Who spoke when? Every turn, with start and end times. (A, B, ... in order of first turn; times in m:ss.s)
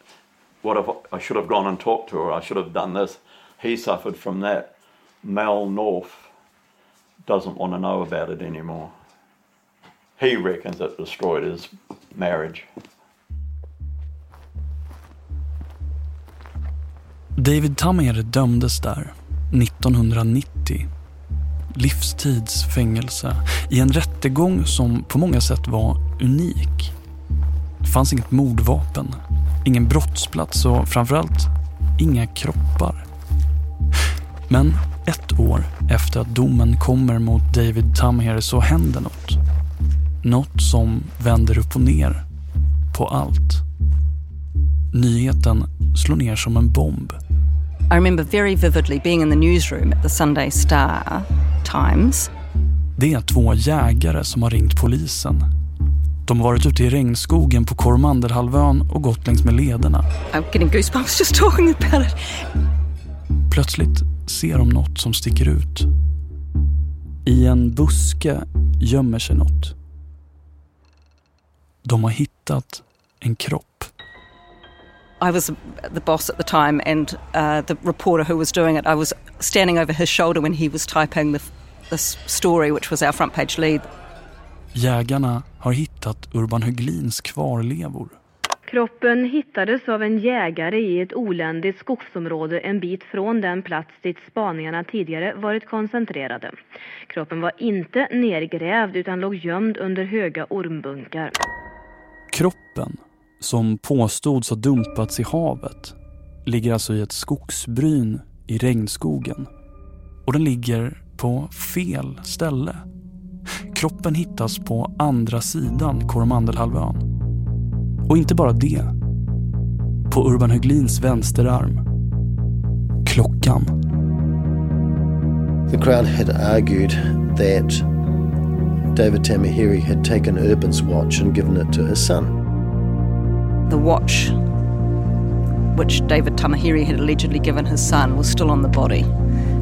0:00.6-0:06.3 A
0:07.2-0:08.9 A
0:10.2-0:12.7 A
0:17.4-0:20.9 B
0:21.7-0:26.9 B
0:27.8-0:33.0 B
0:34.5-0:39.4 B
0:40.2-0:42.2 B
0:42.9-0:43.6 B
0:44.9-0:47.2 B
0:47.9-0:52.3 C
0:53.0-0:55.5 B
0:56.2-1:00.1 B
1:00.3-1:02.4 C
1:03.5-1:05.9 B
1:07.2-1:09.7 B
1:11.8-1:13.9 B
1:15.2-1:23.9 C
1:24.7-1:28.2 B
1:28.7-1:36.6 D
1:37.1-1:41.3 D
1:42.3-1:49.5 B
1:50.2-1:52.8 B
1:53.7-1:57.0 B
1:58.1-1:58.9 B
2:00.1-2:01.8 B
2:03.0-2:03.7 B
2:05.7-2:07.8 E
2:08.9-2:12.3 E
2:13.7-2:14.4 C
2:15.7-2:19.1 C